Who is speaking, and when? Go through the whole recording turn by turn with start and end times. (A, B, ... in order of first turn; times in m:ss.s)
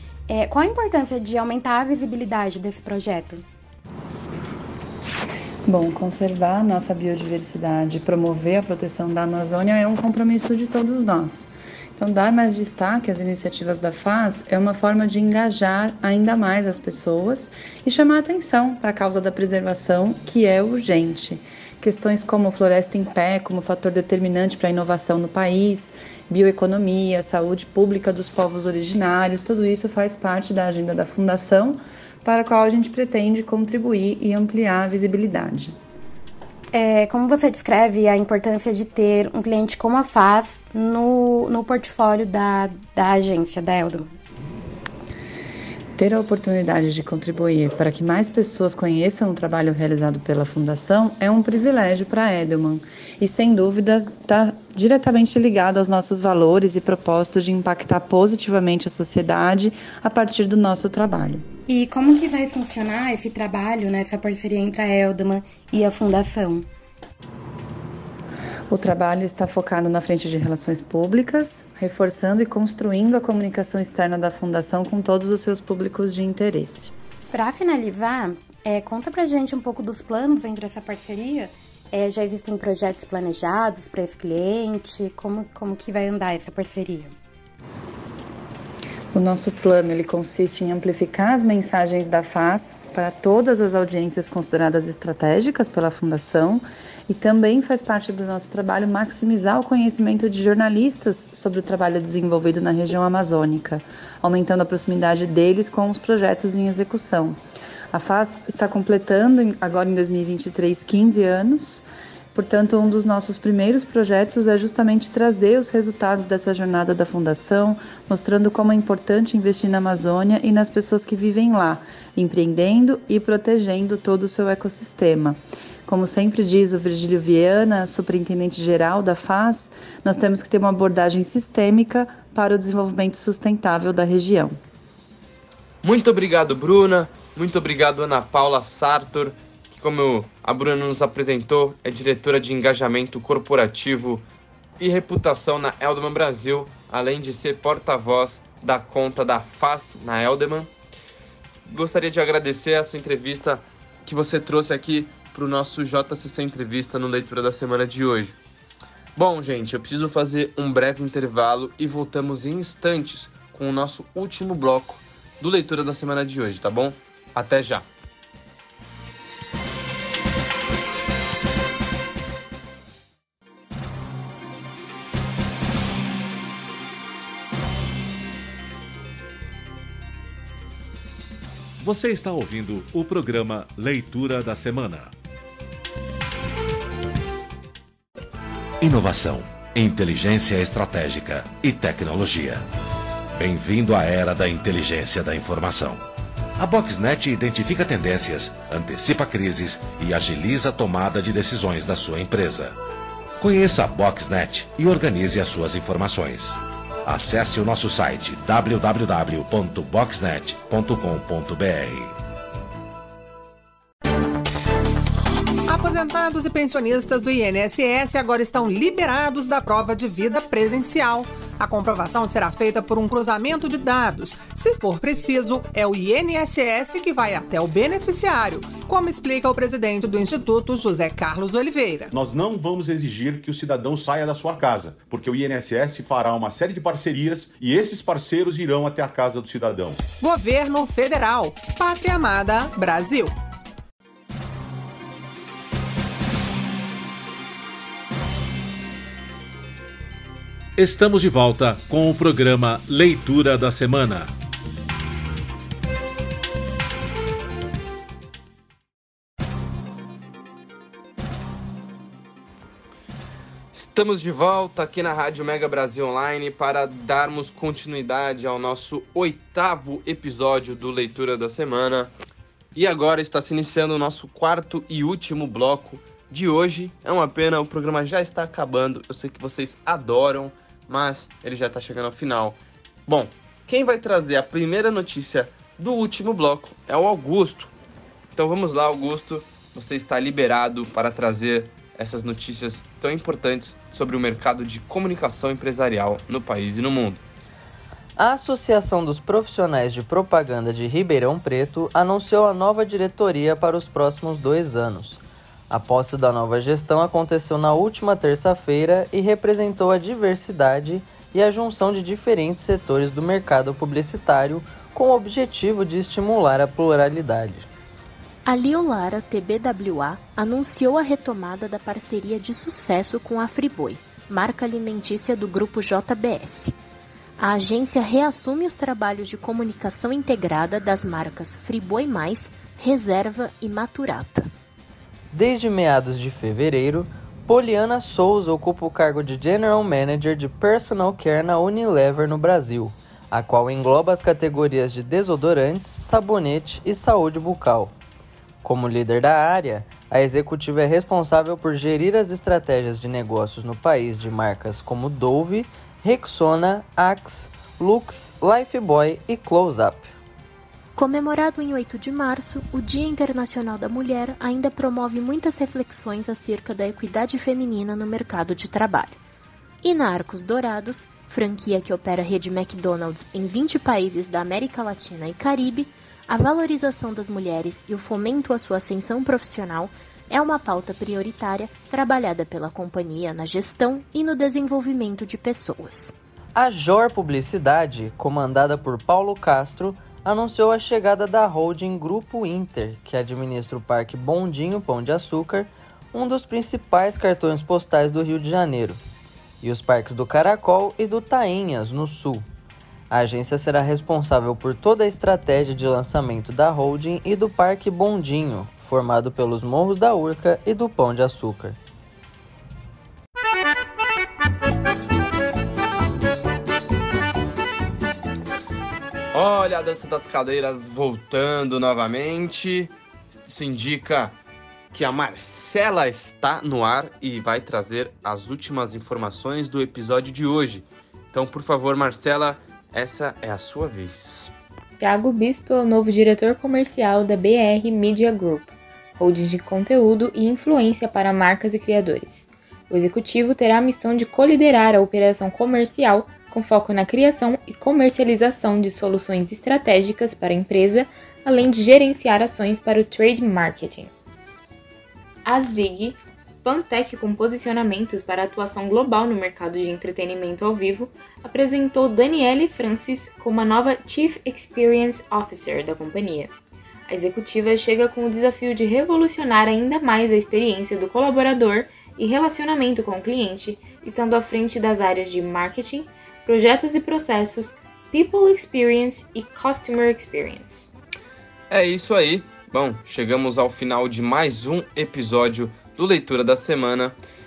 0:00.3-0:03.4 A
0:05.7-0:35.8 B
0:36.7-0:44.2 A
0:46.0-1:01.4 B
1:01.7-1:06.7 A
1:08.7-1:16.9 B
1:17.3-1:27.2 A
1:29.1-1:47.4 B
1:47.9-2:14.6 B
2:15.8-2:24.2 C
2:24.8-2:30.7 C
2:31.7-2:38.4 C
2:39.2-2:47.9 C
3:01.8-3:05.1 D
3:08.8-3:12.7 E
3:13.4-3:16.0 E
3:16.6-3:22.8 E
3:23.4-3:32.2 E
3:35.7-3:52.1 F
3:52.1-4:00.0 G
4:00.2-4:03.4 F
4:10.8-4:14.3 D
4:23.7-4:32.1 C
4:32.8-4:47.7 C
4:48.4-4:57.2 C
4:58.2-5:17.7 H
5:18.4-5:26.8 I
5:27.4-5:34.5 I
5:35.3-5:48.0 H
5:48.6-6:00.1 H
6:01.0-6:09.2 I
6:09.8-6:26.1 I
6:26.6-6:39.0 H
6:39.6-6:42.5 H
6:43.1-6:51.8 H
6:59.3-7:02.9 C
7:03.4-7:04.4 C
7:04.9-7:14.5 C
7:15.0-7:34.1 J
7:35.4-7:46.5 J
7:47.1-8:00.9 J
8:01.7-8:07.2 C